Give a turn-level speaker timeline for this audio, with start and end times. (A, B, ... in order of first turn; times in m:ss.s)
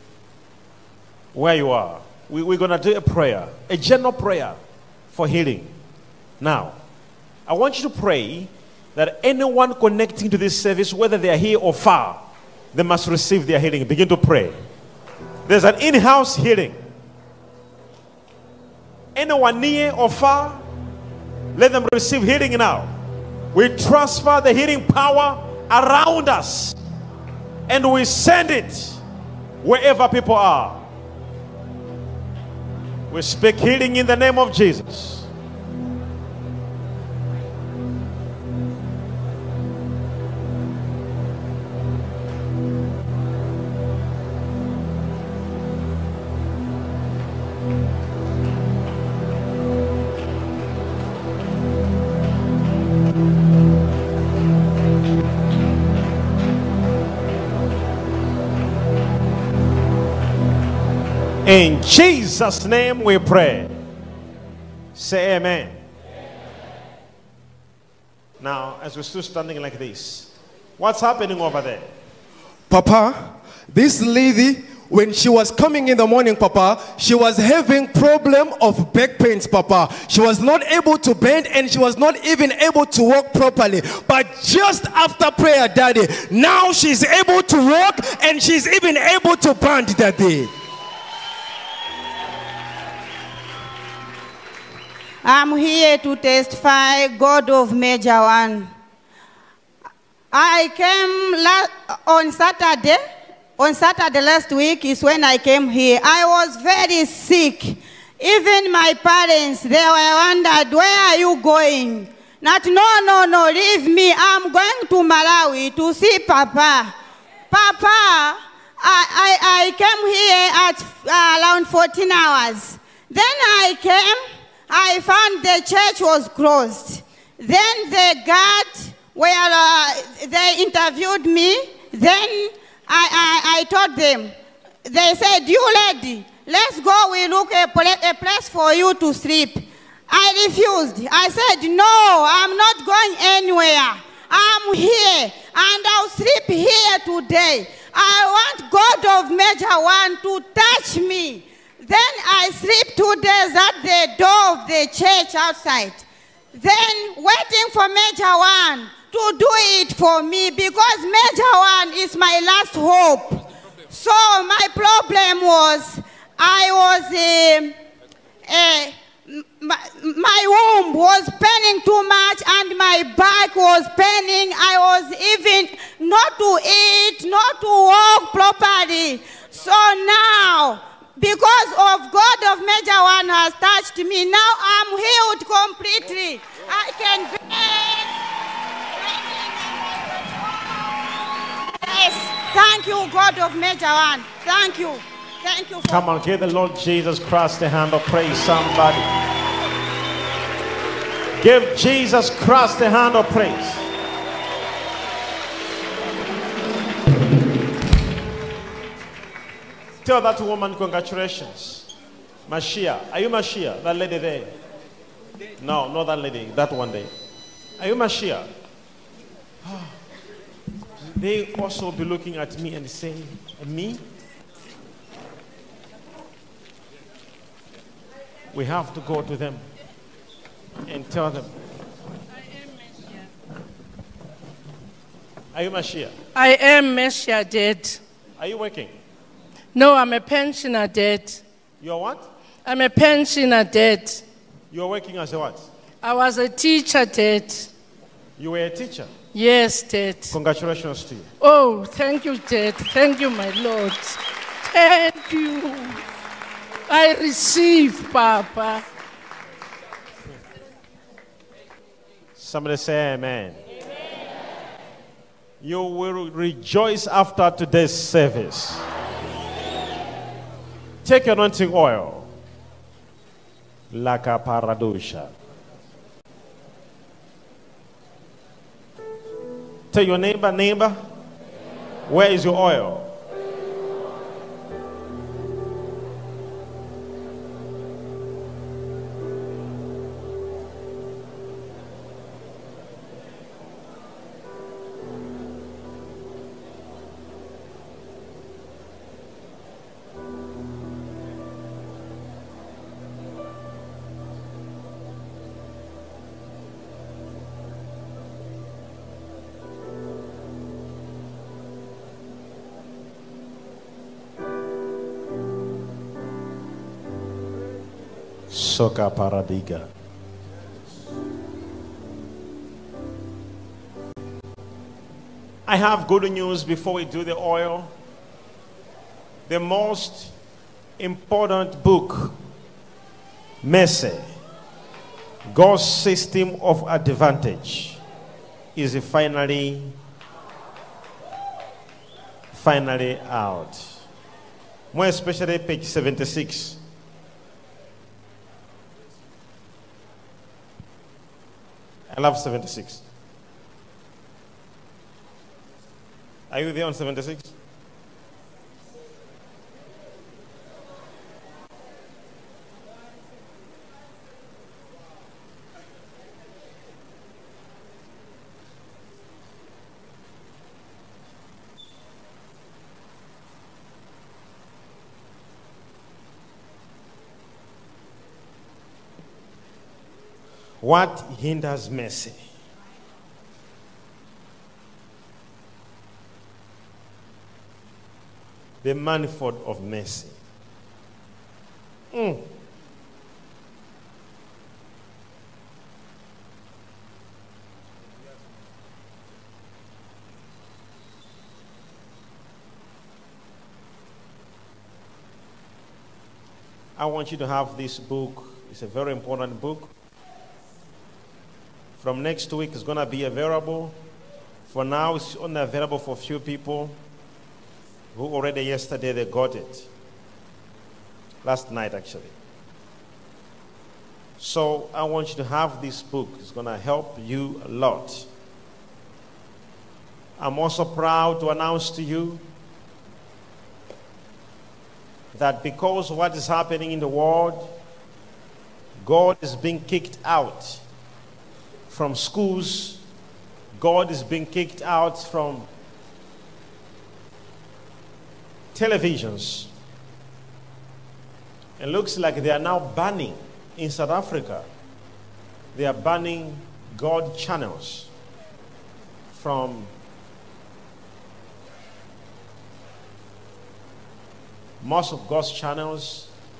0:01.3-0:04.6 A
0:05.1-0:05.7 A
0:06.4-0:06.8 A
0:07.5-0:12.2 A
0:12.7-0:14.6 A
0:15.4-0:16.8 A
0:19.1-0:20.6 A
0:21.5-0:22.9 A
0:23.5-0:26.8 A
0:27.7-0:29.0 A
0:29.6-0:30.8 A
0:33.1-0:35.3 A
1:01.4-1:03.7 A
1:04.9-1:05.8 A
1:08.4-1:11.9 A
1:12.7-1:30.5 B
1:35.2-1:38.7 C
1:40.3-1:43.0 C
1:43.6-1:56.9 C
1:57.5-2:14.3 C
2:14.8-2:47.8 C
2:48.5-3:08.1 C
3:11.8-3:16.1 C
3:15.9-3:19.2 A
3:21.4-3:23.9 A
3:30.0-3:31.9 A
3:32.5-3:34.5 A
3:35.6-3:37.1 A
3:37.8-3:38.5 A
3:39.6-3:39.9 A
3:41.1-3:44.0 A
3:48.5-3:49.6 A
3:50.9-3:51.5 A
3:52.8-3:53.1 D
3:55.5-3:56.1 A
3:56.3-3:58.0 D
3:58.4-3:58.9 A
3:59.7-4:01.4 D
4:01.8-4:02.2 A
4:02.6-4:04.2 D
4:04.7-4:05.6 A
4:06.0-4:07.7 D
4:08.4-4:09.1 A
4:09.3-4:10.3 D
4:10.3-4:11.3 A
4:11.4-4:16.0 D
4:16.9-4:18.8 D
4:22.4-4:23.6 A
4:25.6-4:28.8 A
4:31.0-4:32.3 A
4:33.9-4:35.3 A
4:39.9-4:41.0 A
4:42.1-4:43.1 A
5:18.5-5:19.9 A
5:25.7-5:27.9 A
5:29.5-5:30.3 A
5:31.0-5:32.3 A
5:33.6-5:34.2 A
5:35.5-5:38.0 A
5:38.8-5:39.9 A
5:42.5-5:43.9 A
5:44.9-5:46.8 A
5:52.1-5:53.0 A
5:56.5-5:57.5 A
6:20.8-6:22.4 A
6:28.8-6:30.4 A
6:32.1-6:32.4 A
6:47.0-6:49.9 A
6:52.0-6:54.0 A
6:54.7-6:57.0 A
6:58.1-6:59.9 A
7:01.4-7:02.3 A
7:04.4-7:08.3 A
7:10.4-7:12.4 A
7:15.3-7:17.7 A
7:19.0-7:20.8 A
7:21.9-7:23.0 A
7:23.8-7:25.7 A
7:28.7-7:29.7 A
7:31.8-7:34.6 A
7:35.7-7:38.1 A
7:39.3-7:39.9 A
7:44.8-7:46.3 A